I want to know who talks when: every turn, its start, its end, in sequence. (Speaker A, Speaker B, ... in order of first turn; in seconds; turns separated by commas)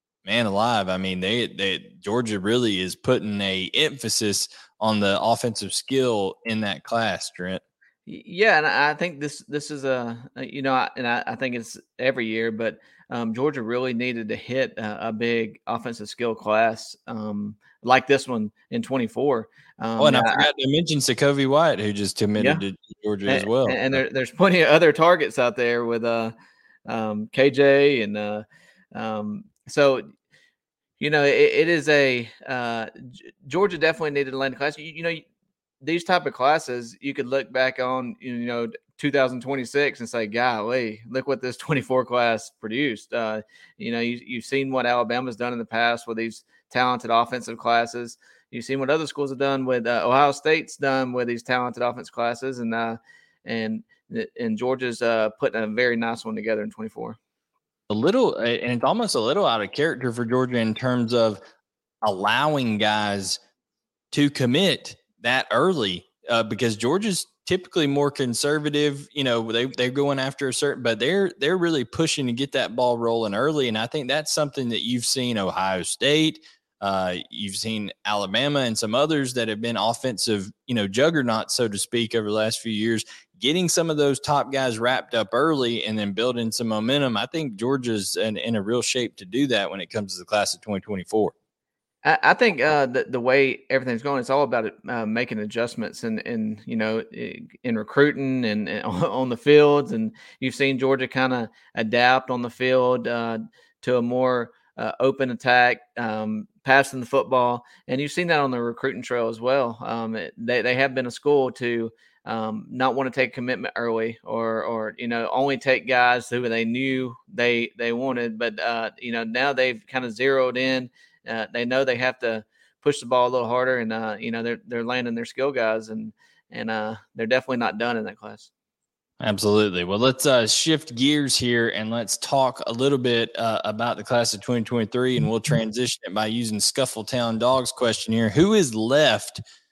Speaker A: 0.2-7.6, Speaker B: 8.1-20.5, Speaker A: 20.0-24.0, Speaker B: 23.3-26.3, Speaker B: 26.9-30.1, Speaker B: 31.0-35.2, Speaker B: 35.8-57.2, Speaker A: 57.9-61.4, Speaker A: 62.0-63.4, Speaker A: 64.1-91.3, Speaker B: 92.0-128.5, Speaker A: 129.2-139.4